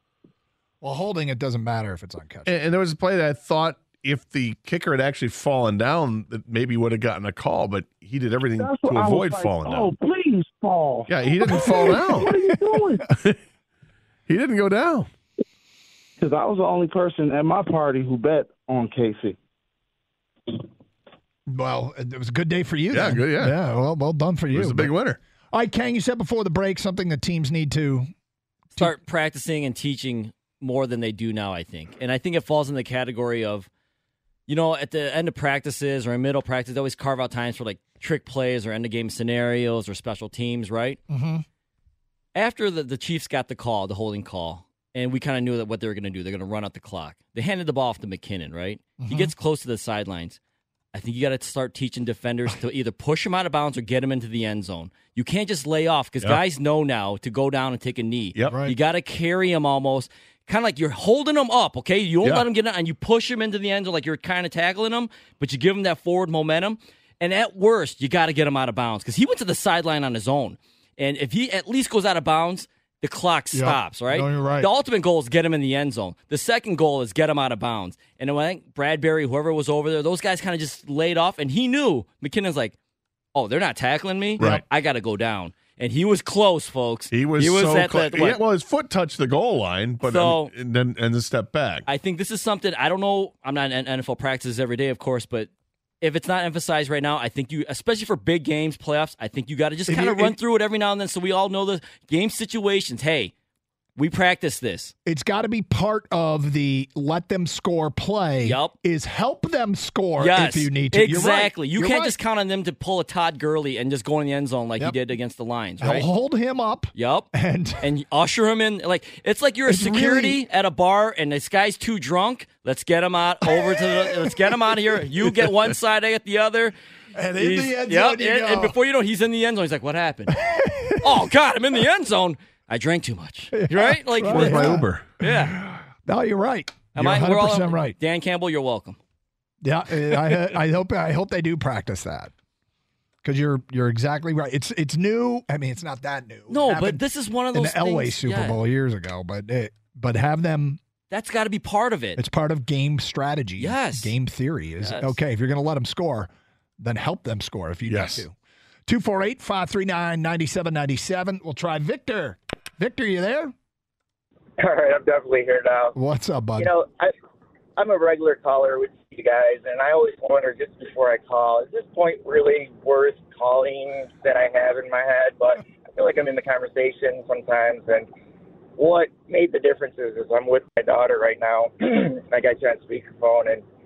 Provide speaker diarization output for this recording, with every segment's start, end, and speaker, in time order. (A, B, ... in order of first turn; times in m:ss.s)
0:00.8-0:02.6 A
0:02.5-0:09.9 B
0:08.6-0:12.5 C
0:11.1-0:12.4 B
0:11.6-0:12.0 A
0:14.3-0:15.1 B
0:16.2-0:19.3 C
0:21.5-0:24.9 A
0:22.9-0:23.6 B
0:24.5-0:25.2 B
0:25.5-0:28.1 A
0:28.8-0:33.7 D
0:34.5-0:41.0 D
0:41.1-0:41.4 A
0:42.3-0:50.4 D
0:49.0-0:49.3 A
0:50.9-1:22.8 D
0:58.5-0:58.8 A
1:13.5-1:14.7 A
1:23.3-1:28.4 D
1:24.4-1:24.6 A
1:24.4-1:24.6 B
1:27.1-1:31.8 B
1:30.0-1:30.5 D
1:31.9-1:35.5 D
1:36.0-1:43.3 D
1:39.9-1:40.4 A
1:44.0-1:44.9 D
1:45.0-1:52.2 A
1:48.4-1:48.7 D
1:50.2-1:56.1 D
1:55.8-1:57.9 A
1:56.9-1:57.3 D
1:57.8-2:06.8 D
1:59.6-2:00.4 A
2:03.6-2:04.3 A
2:07.1-2:08.8 A
2:07.4-2:10.4 D
2:10.3-2:11.2 A
2:11.0-2:15.6 D
2:13.5-2:18.0 A
2:14.2-2:15.1 B
2:16.9-2:19.0 D
2:19.6-2:22.3 A
2:23.2-2:30.8 A
2:26.5-2:28.6 D
2:31.1-2:32.2 D
2:32.2-2:38.3 A
2:33.6-2:34.1 D
2:34.8-2:35.2 D
2:37.9-2:38.2 B
2:38.9-2:43.5 A
2:44.6-2:45.9 E
2:45.9-2:46.7 A
2:46.6-2:47.1 E
2:47.8-2:58.1 E
2:58.8-3:03.6 E